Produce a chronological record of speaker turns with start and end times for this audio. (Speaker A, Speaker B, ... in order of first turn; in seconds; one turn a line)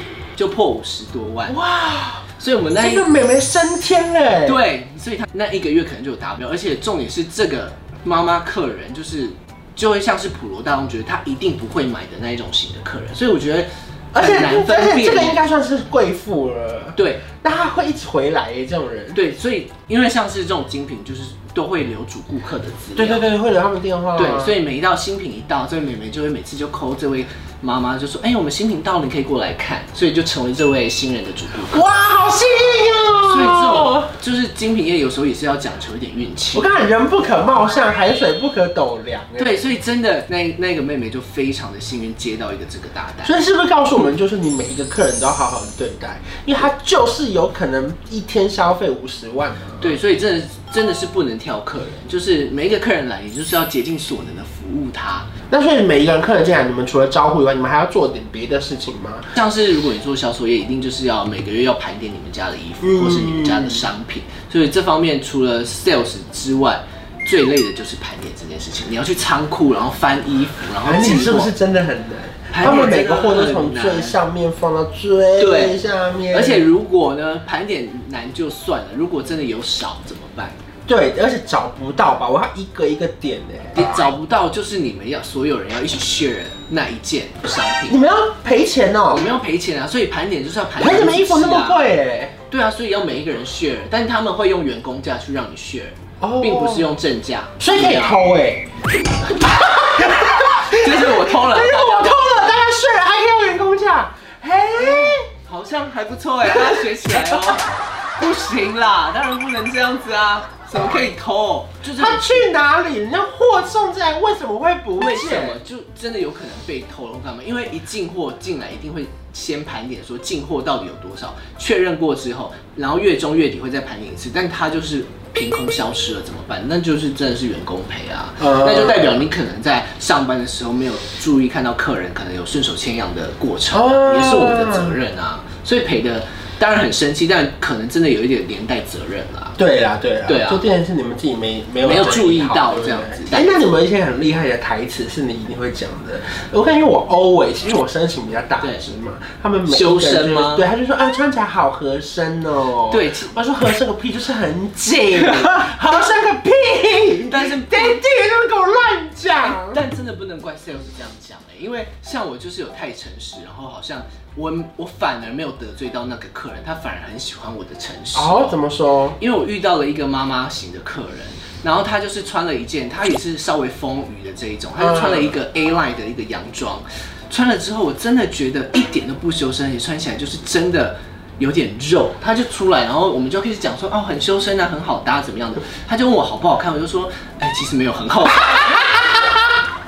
Speaker A: 0.3-1.5
Speaker B: 1.5-4.6
Speaker A: 2.4-3.1
Speaker A: 4.4-15.4
Speaker B: 14.1-19.2
Speaker A: 16.9-17.2
Speaker A: 19.1-23.3
Speaker B: 22.9-24.6
Speaker A: 24.1-31.9
Speaker B: 31.7-34.1
Speaker A: 33.2-36.7
Speaker B: 36.5-39.6
Speaker A: 39.4-43.3
Speaker B: 43.2-50.0
Speaker A: 49.8-55.3
Speaker B: 55.5-59.3
Speaker A: 59.3-71.5
Speaker B: 62.8-63.8
Speaker B: 70.8-76.7
Speaker A: 72.5-74.2
Speaker A: 75.4-75.8
Speaker A: 76.3-80.6
Speaker B: 80.9-84.1
Speaker A: 83.7-88.0
Speaker B: 87.9-89.3
Speaker A: 89.1-91.8
Speaker B: 90.8-92.3
Speaker A: 92.5-98.2
Speaker B: 96.2-96.9
Speaker B: 97.6-98.7
Speaker B: 99.2-105.2
Speaker A: 100.7-102.2
Speaker A: 104.7-112.5
Speaker B: 106.4-107.6
Speaker B: 111.9-115.6
Speaker A: 115.0-139.6
Speaker B: 128.4-129.2
Speaker B: 133.7-135.0
Speaker B: 139.6-159.8
Speaker A: 140.2-140.6
Speaker A: 141.8-143.5
Speaker A: 148.6-148.9
Speaker A: 149.7-150.7
Speaker A: 152.9-153.3
Speaker A: 157.3-158.0
Speaker A: 159.4-168.6
Speaker B: 168.1-169.2
Speaker A: 169.2-189.2
Speaker B: 174.8-175.3